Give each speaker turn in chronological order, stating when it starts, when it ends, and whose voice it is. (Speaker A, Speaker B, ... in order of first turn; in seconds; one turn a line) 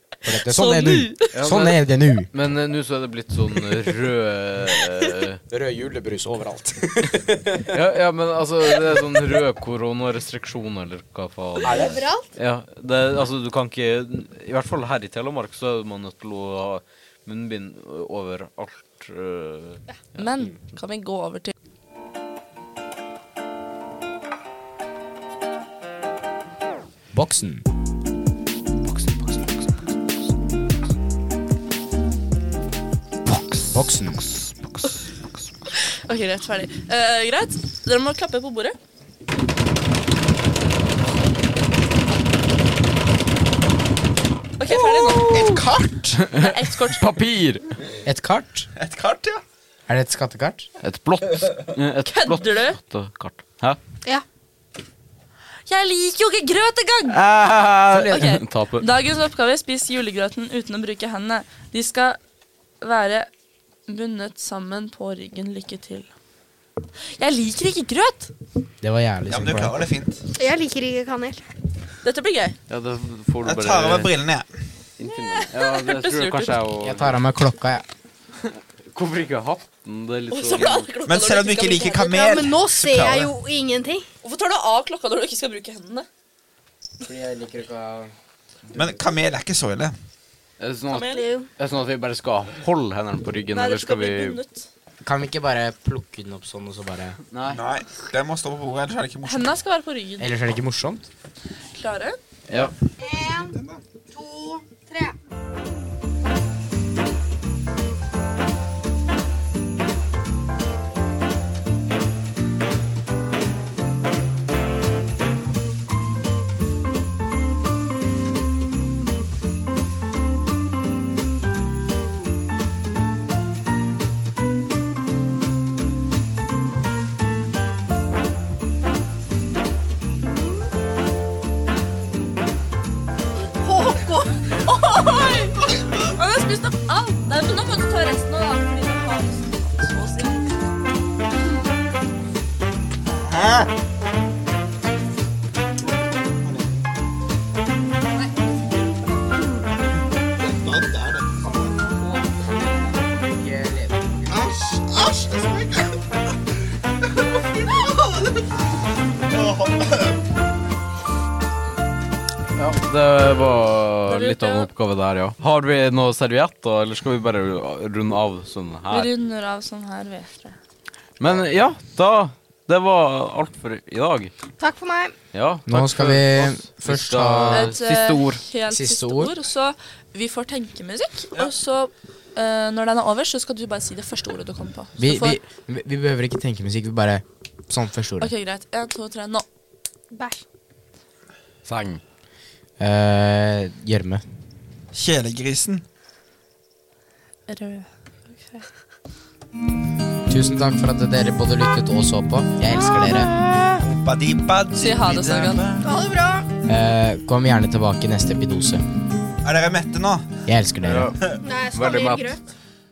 Speaker A: 0.2-2.3
Speaker B: 0.2-1.3
Speaker C: 1.3-5.4
Speaker A: 5.5-7.8
Speaker C: 7.7-20.3
Speaker A: 11.6-12.0
Speaker D: 11.6-12.3
Speaker B: 20.2-21.5
Speaker A: 27.1-27.6
Speaker A: 33.7-34.3
Speaker B: 35.7-38.8
Speaker B: 44.6-45.3
Speaker E: 45.2-46.2
Speaker C: 45.3-45.6
Speaker C: 46.1-47.7
Speaker B: 46.4-47.0
Speaker A: 48.0-48.7
Speaker E: 48.8-49.4
Speaker A: 49.9-50.7
Speaker C: 50.8-53.8
Speaker B: 52.1-52.8
Speaker B: 55.6-57.2
Speaker C: 57.1-58.9
Speaker A: 57.9-58.3
Speaker B: 58.1-62.2
Speaker B: 62.8-63.3
Speaker B: 63.9-66.1
Speaker B: 67.0-68.3
Speaker A: 68.8-69.8
Speaker E: 69.3-70.2
Speaker D: 70.3-71.4
Speaker B: 72.0-72.6
Speaker C: 72.7-74.1
Speaker E: 73.4-74.5
Speaker C: 75.0-77.2
Speaker B: 75.3-76.6
Speaker A: 76.8-77.8
Speaker C: 78.4-80.9
Speaker B: 80.3-82.2
Speaker E: 81.0-83.3
Speaker D: 82.1-84.0
Speaker B: 84.2-86.1
Speaker A: 87.0-88.1
Speaker E: 88.7-89.9
Speaker C: 90.6-94.4
Speaker B: 90.9-91.2
Speaker D: 90.9-91.5
Speaker B: 93.5-94.7
Speaker A: 95.0-97.2
Speaker C: 97.3-97.6
Speaker E: 97.5-99.5
Speaker B: 99.2-100.3
Speaker A: 100.2-101.1
Speaker B: 101.7-102.2
Speaker C: 102.5-102.7
Speaker D: 103.0-103.6
Speaker E: 103.2-103.8
Speaker D: 104.1-105.2
Speaker D: 133.6-134.3
Speaker B: 133.9-140.4
Speaker E: 143.0-143.7
Speaker E: 146.4-146.8
Speaker E: 150.4-151.7
Speaker B: 151.6-152.7
Speaker A: 153.1-154.3
Speaker E: 154.3-156.0
Speaker E: 159.3-160.2
Speaker C: 162.6-169.1
Speaker B: 164.1-164.7
Speaker B: 168.9-170.6
Speaker C: 171.2-174.3
Speaker D: 174.6-175.1
Speaker C: 175.3-178.4
Speaker A: 175.7-177.7
Speaker B: 177.5-185.4
Speaker A: 178.7-179.3
Speaker A: 185.0-188.3
Speaker B: 188.2-189.4
Speaker D: 190.1-190.4
Speaker C: 191.6-192.0
Speaker A: 192.8-194.2
Speaker E: 194.9-195.8
Speaker B: 197.5-198.7
Speaker A: 200.3-203.3
Speaker E: 203.1-205.9
Speaker B: 204.8-205.6
Speaker D: 205.8-206.5
Speaker A: 206.7-208.8
Speaker E: 209.4-210.4
Speaker A: 210.5-211.2
Speaker C: 210.8-212.3
Speaker D: 211.4-212.4